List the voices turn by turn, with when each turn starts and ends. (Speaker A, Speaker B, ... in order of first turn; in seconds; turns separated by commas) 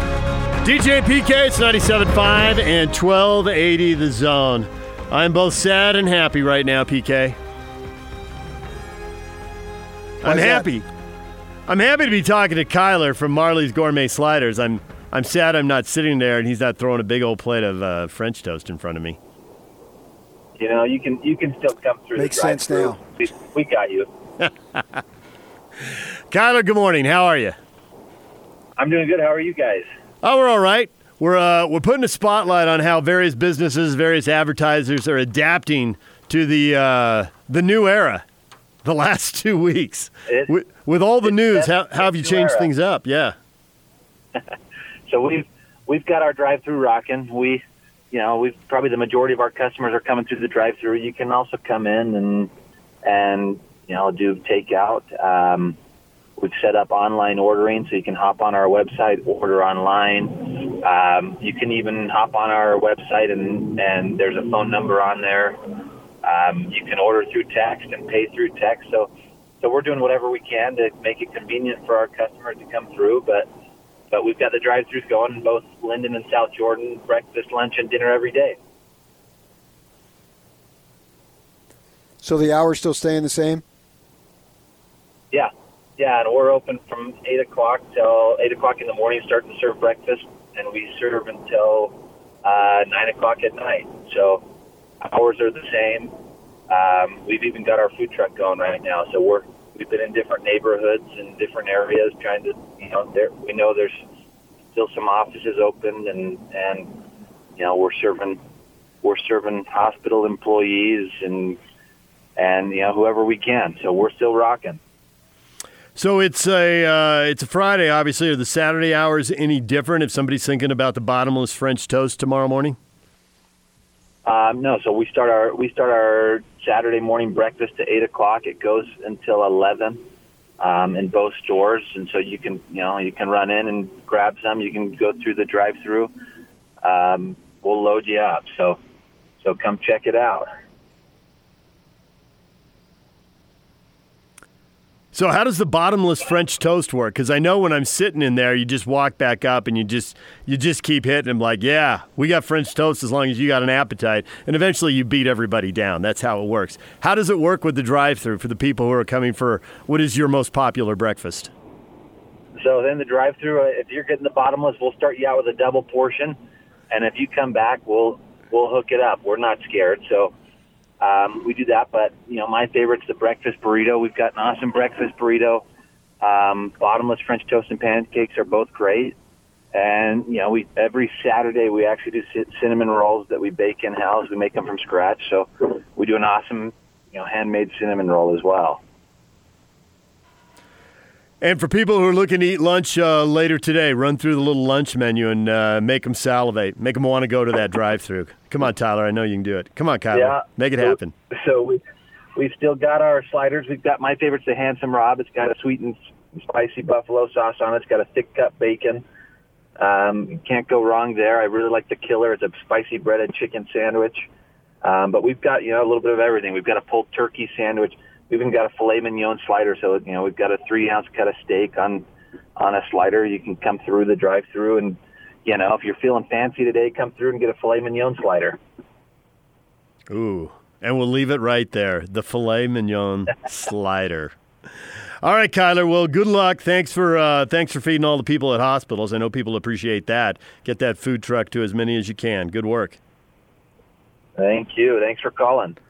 Speaker A: 0.6-7.3, Speaker A: 10.2-10.8, Speaker B: 10.3-10.6, Speaker A: 11.7-19.2, Speaker C: 20.6-24.1, Speaker B: 22.1-23.0, Speaker A: 26.3-27.5, Speaker C: 28.8-29.9, Speaker A: 30.2-38.2, Speaker A: 38.8-43.3, Speaker C: 40.3-40.5, Speaker C: 41.2-42.7, Speaker C: 45.1-52.5, Speaker C: 53.0-55.8, Speaker C: 56.4-69.1, Speaker C: 69.6-73.5, Speaker C: 74.1-78.6, Speaker B: 82.2-83.6, Speaker C: 85.3-94.4, Speaker C: 95.0-96.1, Speaker C: 96.7-104.0, Speaker C: 104.7-107.0, Speaker C: 107.5-108.4, Speaker C: 109.0-111.6, Speaker C: 112.3-114.8, Speaker A: 116.0-122.8, Speaker C: 124.2-130.0, Speaker C: 130.6-136.1, Speaker C: 136.8-138.8, Speaker C: 139.4-140.5, Speaker A: 145.1-161.5, Speaker C: 162.5-166.4, Speaker C: 166.9-170.3, Speaker C: 171.0-175.6, Speaker C: 176.2-179.1, Speaker C: 179.7-188.8, Speaker A: 191.4-201.1, Speaker C: 200.1-201.8, Speaker C: 202.3-209.0, Speaker C: 209.8-214.3, Speaker C: 214.8-222.1, Speaker C: 222.6-228.6, Speaker A: 230.1-234.3, Speaker A: 235.2-243.0, Speaker C: 244.4-245.8